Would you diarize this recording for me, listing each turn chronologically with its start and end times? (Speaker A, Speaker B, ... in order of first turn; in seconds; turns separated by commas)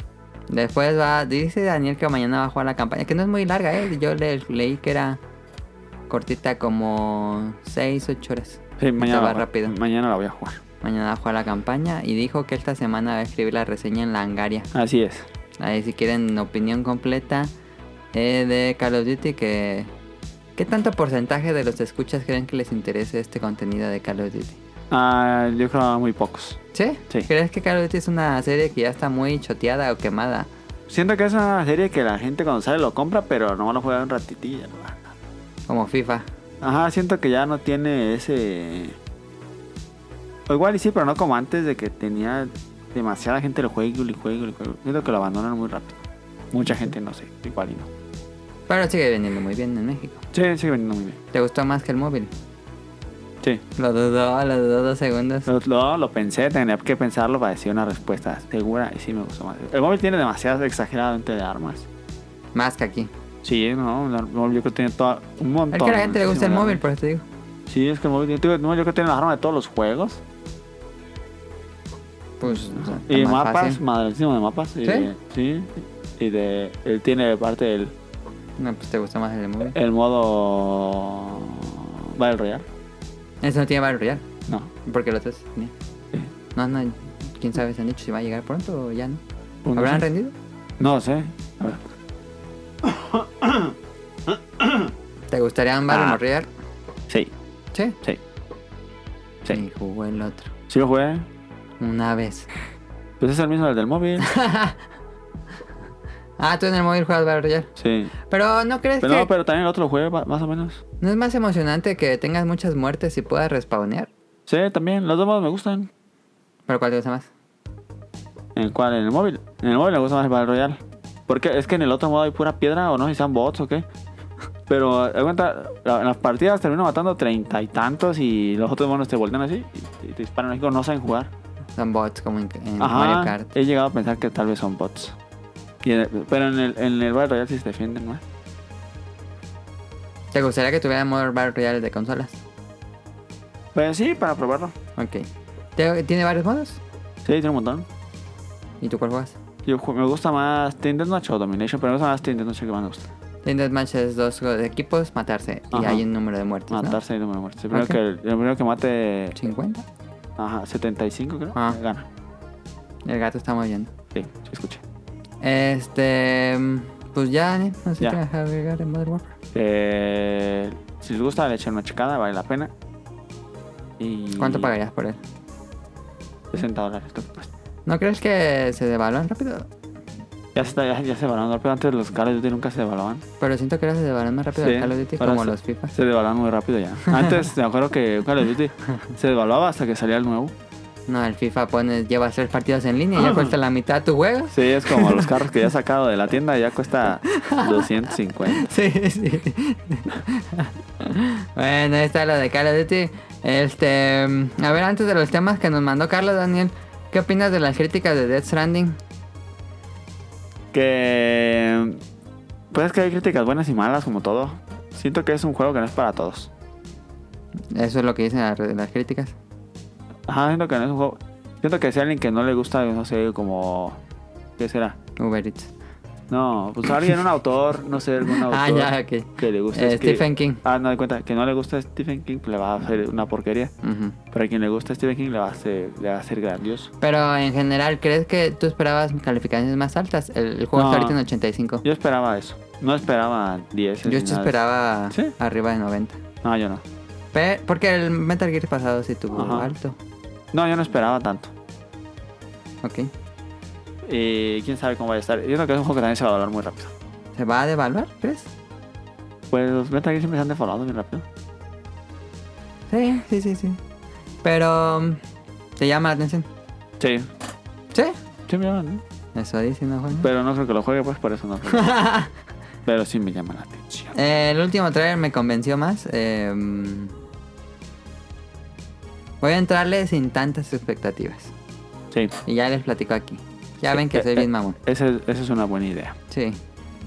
Speaker A: 0.5-5.2, Speaker A: 6.1-9.8, Speaker B: 8.8-10.6, Speaker A: 10.8-14.7, Speaker B: 14.7-15.3, Speaker A: 15.6-17.5, Speaker A: 18.1-19.9, Speaker A: 20.6-24.6, Speaker B: 24.9-26.6, Speaker A: 26.7-30.5, Speaker B: 30.9-35.1, Speaker A: 35.7-36.3, Speaker B: 36.6-39.0, Speaker B: 40.5-46.0, Speaker B: 46.5-47.9, Speaker A: 48.7-50.2, Speaker B: 50.3-51.2, Speaker A: 51.3-52.3, Speaker A: 53.8-55.5, Speaker B: 55.5-61.9, Speaker A: 62.5-63.1, Speaker B: 63.4-66.8, Speaker A: 65.7-67.2, Speaker B: 67.7-70.2, Speaker A: 72.4-73.8, Speaker B: 72.4-77.9, Speaker A: 74.8-75.1, Speaker A: 78.6-79.8, Speaker B: 79.7-82.7, Speaker A: 83.4-84.2, Speaker A: 84.8-85.7, Speaker A: 86.5-89.2, Speaker B: 89.6-90.1, Speaker A: 89.8-90.3, Speaker B: 90.8-91.8, Speaker B: 92.8-93.7, Speaker B: 94.3-94.9, Speaker A: 95.3-96.5, Speaker B: 95.9-96.2, Speaker A: 99.5-100.5, Speaker B: 100.7-101.3, Speaker A: 101.8-102.5, Speaker B: 103.2-104.3, Speaker A: 104.2-104.8, Speaker A: 106.4-107.7, Speaker B: 107.8-108.1, Speaker A: 108.3-109.3, Speaker B: 109.0-110.8, Speaker A: 111.0-114.1, Speaker B: 114.5-115.9, Speaker A: 116.7-117.3, Speaker B: 118.5-123.8, Speaker B: 124.7-131.3, Speaker A: 131.8-133.5, Speaker B: 132.8-135.2, Speaker B: 135.8-138.2, Speaker A: 140.3-142.4, Speaker B: 143.8-144.7, Speaker A: 145.0-146.8, Speaker B: 147.2-147.9, Speaker A: 148.8-149.4, Speaker B: 149.6-153.1, Speaker A: 153.4-157.0, Speaker B: 155.7-156.1, Speaker B: 156.7-159.4, Speaker A: 157.7-158.0, Speaker A: 159.3-159.8, Speaker B: 160.4-162.1, Speaker A: 161.5-161.8, Speaker A: 163.1-163.9, Speaker B: 164.1-164.8, Speaker A: 165.4-169.3, Speaker B: 169.5-172.7, Speaker B: 174.0-174.7, Speaker A: 174.3-175.2, Speaker B: 176.5-177.5, Speaker A: 177.9-179.7, Speaker B: 180.6-183.2, Speaker A: 183.4-185.9, Speaker B: 184.5-190.5, Speaker A: 187.1-187.4, Speaker A: 191.1-195.3, Speaker B: 193.2-193.5, Speaker B: 194.5-198.7, Speaker A: 197.3-197.9, Speaker A: 198.4-209.0, Speaker B: 210.7-212.0, Speaker B: 212.7-216.5, Speaker A: 217.7-219.3, Speaker B: 220.3-224.0, Speaker B: 224.6-225.0, Speaker A: 225.2-225.7, Speaker B: 226.3-233.7, Speaker A: 228.3-230.6, Speaker A: 233.8-234.2, Speaker B: 234.3-236.9, Speaker A: 237.0-241.8, Speaker B: 240.7-241.2, Speaker B: 241.8-244.6, Speaker A: 244.0-246.2, Speaker B: 246.4-246.8, Speaker A: 247.3-250.0, Speaker B: 249.3-249.7, Speaker B: 250.5-251.5, Speaker A: 252.8-253.1, Speaker B: 254.0-256.9, Speaker A: 257.4-258.5, Speaker B: 259.5-261.3, Speaker A: 262.9-263.8, Speaker A: 264.4-265.2, Speaker A: 265.8-266.5, Speaker B: 267.0-267.3, Speaker B: 268.5-269.0, Speaker A: 269.4-270.3, Speaker B: 270.2-272.0, Speaker A: 271.7-272.3, Speaker B: 272.9-274.1, Speaker A: 274.1-277.1, Speaker A: 279.4-281.5, Speaker A: 282.4-284.8, Speaker B: 283.9-286.1, Speaker A: 286.3-286.6